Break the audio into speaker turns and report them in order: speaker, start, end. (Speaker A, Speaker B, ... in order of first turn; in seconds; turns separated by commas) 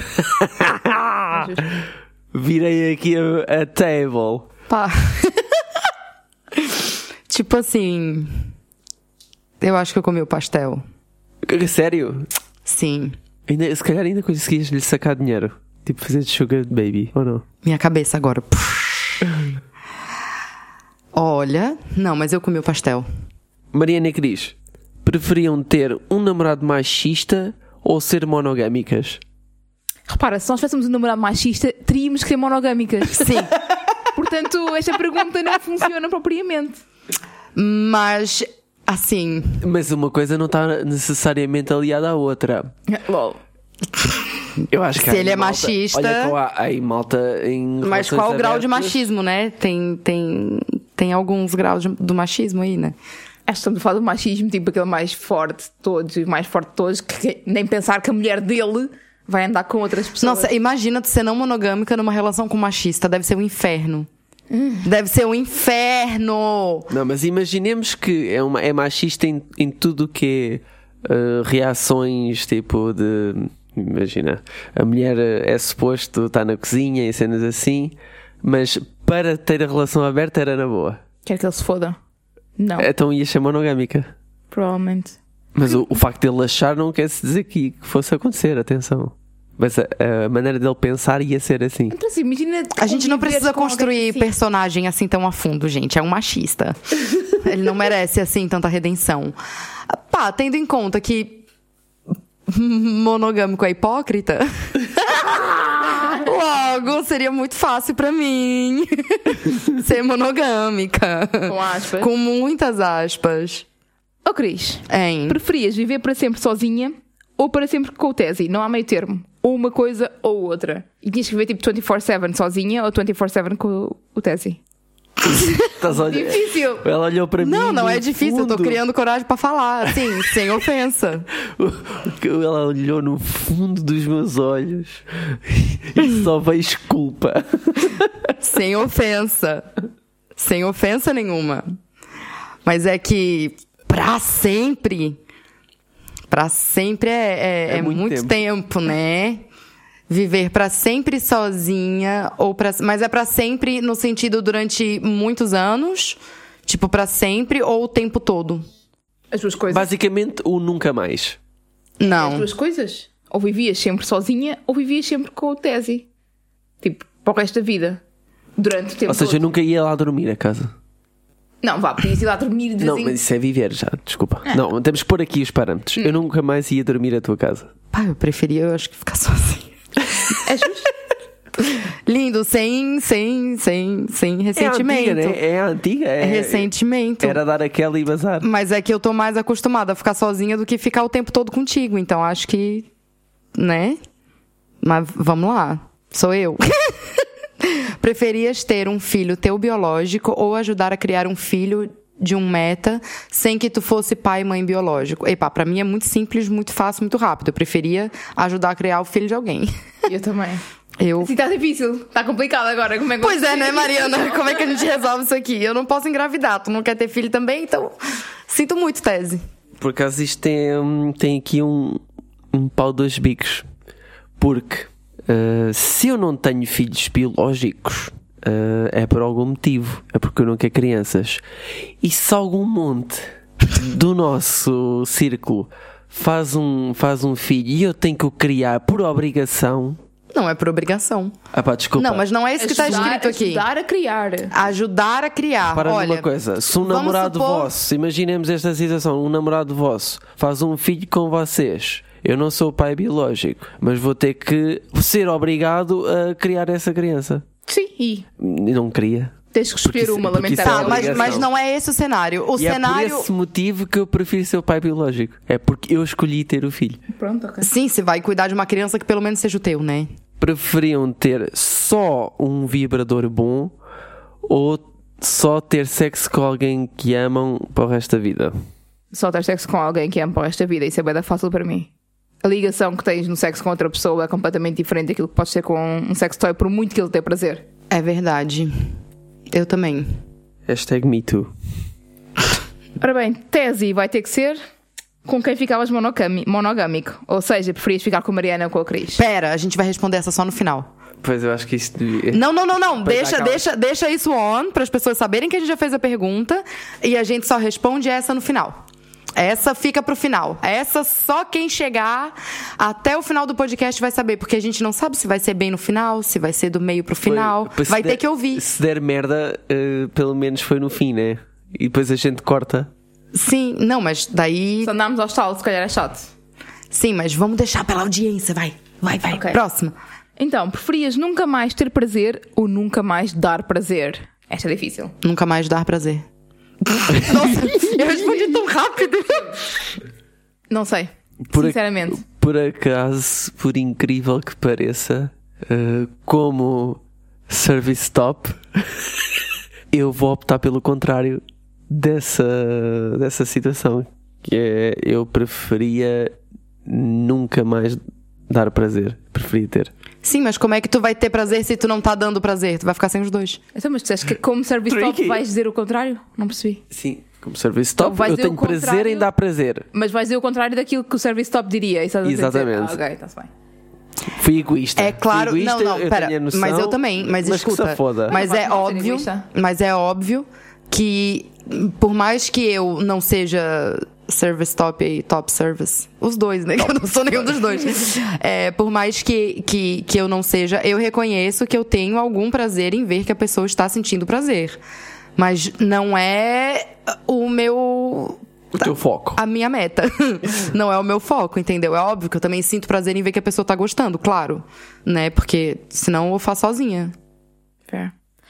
Speaker A: 0.1-1.6, Speaker B: 1.3-1.7, Speaker A: 2.3-4.5, Speaker C: 4.7-5.6, Speaker C: 6.5-8.5, Speaker C: 9.6-10.8, Speaker A: 11.4-12.2, Speaker C: 12.6-13.2, Speaker A: 13.5-17.4, Speaker C: 17.6-19.2, Speaker C: 21.1-23.1, Speaker A: 23.7-29.2, Speaker B: 30.1-33.4, Speaker C: 33.2-33.5, Speaker B: 34.1-36.8, Speaker C: 37.5-39.6, Speaker A: 39.6-42.7, Speaker B: 42.9-43.4, Speaker A: 44.7-49.0, Speaker C: 45.0-46.3, Speaker C: 47.8-52.9, Speaker B: 53.5-60.5, Speaker C: 60.2-64.1, Speaker B: 64.5-64.9, Speaker C: 64.8-66.9, Speaker A: 66.9-81.0, Speaker B: 81.2-82.0, Speaker B: 82.6-82.9, Speaker A: 82.8-84.1, Speaker B: 84.5-85.2, Speaker A: 85.5-91.9, Speaker B: 91.9-94.3, Speaker C: 92.8-99.3, Speaker C: 99.9-101.4, Speaker C: 102.5-113.6, Speaker B: 111.4-112.1, Speaker B: 114.2-124.6, Speaker C: 114.9-115.4, Speaker A: 125.6-128.8, Speaker B: 125.9-126.8, Speaker C: 127.4-131.3, Speaker A: 131.6-138.3, Speaker C: 138.4-139.7, Speaker C: 140.3-141.7, Speaker C: 142.6-145.2, Speaker C: 146.3-149.4, Speaker A: 147.7-148.3, Speaker C: 150.1-158.7, Speaker B: 159.3-159.9, Speaker A: 159.7-161.4, Speaker C: 162.0-162.5, Speaker B: 162.0-166.1, Speaker B: 166.8-168.0, Speaker B: 168.6-169.4, Speaker A: 169.1-170.7, Speaker B: 171.6-173.2, Speaker A: 172.8-177.7, Speaker C: 177.9-179.7, Speaker B: 180.4-180.9, Speaker C: 181.6-185.4, Speaker A: 184.6-186.7, Speaker C: 186.2-187.4, Speaker A: 187.2-188.4, Speaker C: 188.4-192.9, Speaker C: 193.5-194.0, Speaker C: 194.8-209.7, Speaker B: 210.1-210.6, Speaker C: 211.0-211.3, Speaker B: 211.2-214.7, Speaker C: 213.2-219.4, Speaker A: 219.8-222.0, Speaker A: 222.5-223.7, Speaker A: 224.4-231.4, Speaker A: 232.0-240.0, Speaker C: 240.3-241.3, Speaker A: 241.5-242.2, Speaker C: 241.9-243.6, Speaker B: 242.6-244.5, Speaker C: 244.5-246.3, Speaker A: 245.7-257.4, Speaker C: 246.8-247.7, Speaker B: 257.7-258.2, Speaker A: 258.4-261.5, Speaker B: 259.5-261.4, Speaker C: 260.6-263.3, Speaker A: 262.6-267.0, Speaker B: 267.1-267.7, Speaker C: 267.6-270.1, Speaker A: 270.4-273.7, Speaker A: 274.4-278.5, Speaker B: 279.1-281.9, Speaker B: 282.4-287.6, Speaker C: 287.9-288.9, Speaker C: 289.5-290.1, Speaker A: 290.7-291.5, Speaker B: 293.0-294.6, Speaker B: 295.2-299.2, Speaker C: 299.1-300.9, Speaker A: 301.2-303.6, Speaker C: 302.3-308.8, Speaker C: 309.4-318.6, Speaker A: 317.2-322.9, Speaker C: 323.3-324.9, Speaker B: 324.8-326.3, Speaker C: 326.9-329.9, Speaker B: 329.3-329.6, Speaker B: 330.4-335.1, Speaker C: 335.2-336.2, Speaker C: 336.9-339.7, Speaker B: 340.7-342.2, Speaker A: 341.5-349.0, Speaker A: 349.9-356.3, Speaker A: 356.9-359.9, Speaker C: 360.2-363.6, Speaker B: 363.7-366.8, Speaker A: 364.9-365.4, Speaker A: 366.9-369.9, Speaker B: 368.0-369.3, Speaker B: 369.9-373.5, Speaker A: 372.2-373.0, Speaker A: 374.3-378.4, Speaker C: 375.0-394.8, Speaker B: 378.3-379.4, Speaker C: 395.4-407.1, Speaker A: 398.7-399.4, Speaker B: 407.9-408.1